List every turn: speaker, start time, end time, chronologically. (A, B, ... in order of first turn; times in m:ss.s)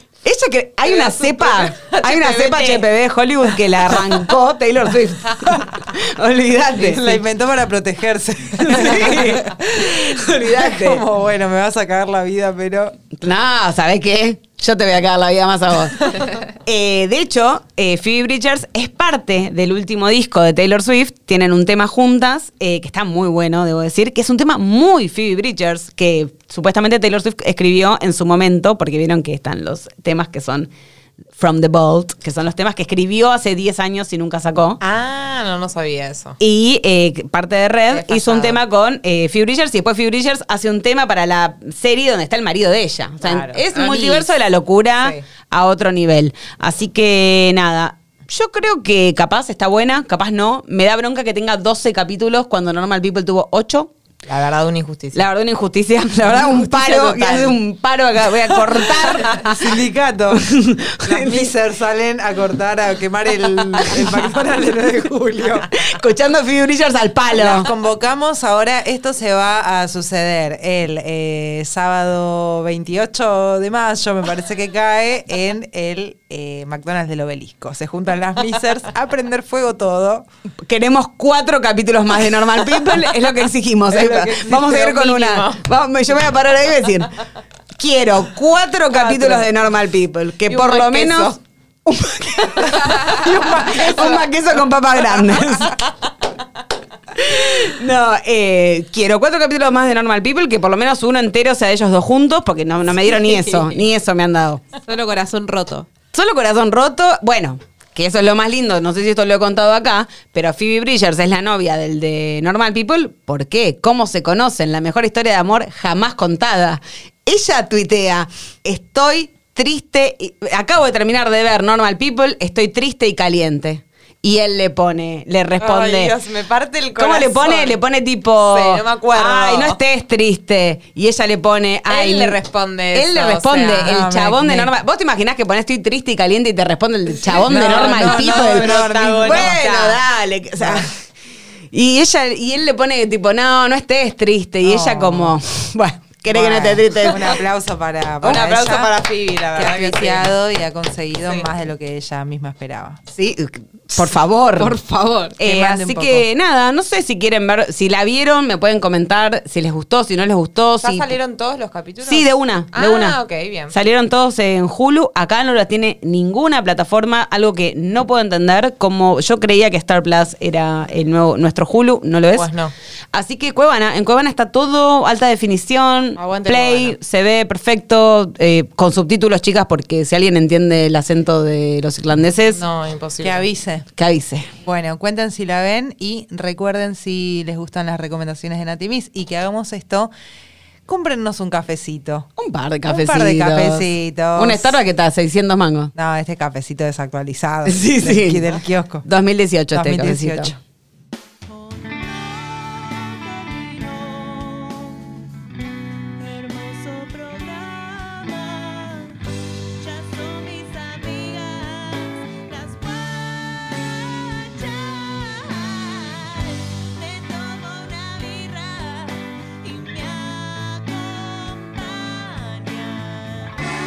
0:00.2-0:07.2 A
0:00.8-0:02.9 B
0:03.7-0:04.2 B
0:06.8-0:13.0 C
0:08.6-0:11.0 A
0:13.1-0:30.7 A
0:31.4-0:34.8 A
0:34.8-0:36.4 B
0:36.4-0:53.9 A
0:37.9-0:38.6 B
0:43.2-0:43.8 B
0:43.8-0:44.2 D
0:54.2-0:55.2 B
0:55.1-0:59.7 A
0:56.2-0:57.6 B
0:59.3-1:00.4 C
1:00.3-1:01.5 A
1:01.0-1:05.7 C
1:05.7-1:07.7 A
1:07.3-1:20.3 C
1:20.6-1:27.2 A
1:23.9-1:24.6 C
1:24.4-1:25.6 B
1:27.7-1:35.8 A
1:29.1-1:29.4 C
1:30.5-1:31.4 B
1:32.6-1:34.3 C
1:37.1-1:44.6 A
1:44.8-1:45.9 D
1:46.1-2:06.1 A
2:05.6-2:07.8 B
2:07.0-2:12.4 A
2:08.4-2:09.8 B
2:11.9-2:13.9 B
2:12.9-2:20.9 A
2:13.8-2:14.7 C
2:17.3-2:20.0 B
2:17.3-2:19.6 C
2:20.6-2:20.9 C
2:21.7-2:27.3 A
2:24.6-2:25.4 C
2:26.3-2:28.9 C
2:28.2-2:30.3 B
2:29.5-2:33.0 C
2:33.1-2:34.8 A
2:34.6-2:35.4 D
2:35.4-2:41.1 A
2:35.4-2:36.2 C
2:40.8-2:43.7 B
2:42.0-2:43.2 A
2:43.7-2:52.5 A
2:52.3-2:52.7 B
2:53.1-3:02.6 A
2:56.2-2:57.0 B
3:02.5-3:03.5 B
3:03.2-3:03.9 C
3:04.0-3:04.5 A
3:04.6-3:10.1 C
3:10.9-3:12.3 C
3:12.4-3:15.9 A
3:12.8-3:14.8 C
3:15.9-3:19.0 C
3:17.6-3:18.4 A
3:19.0-3:20.5 A
3:19.7-3:20.6 C
3:26.9-3:28.9 B
3:29.8-3:33.5 B
3:36.5-3:43.3 B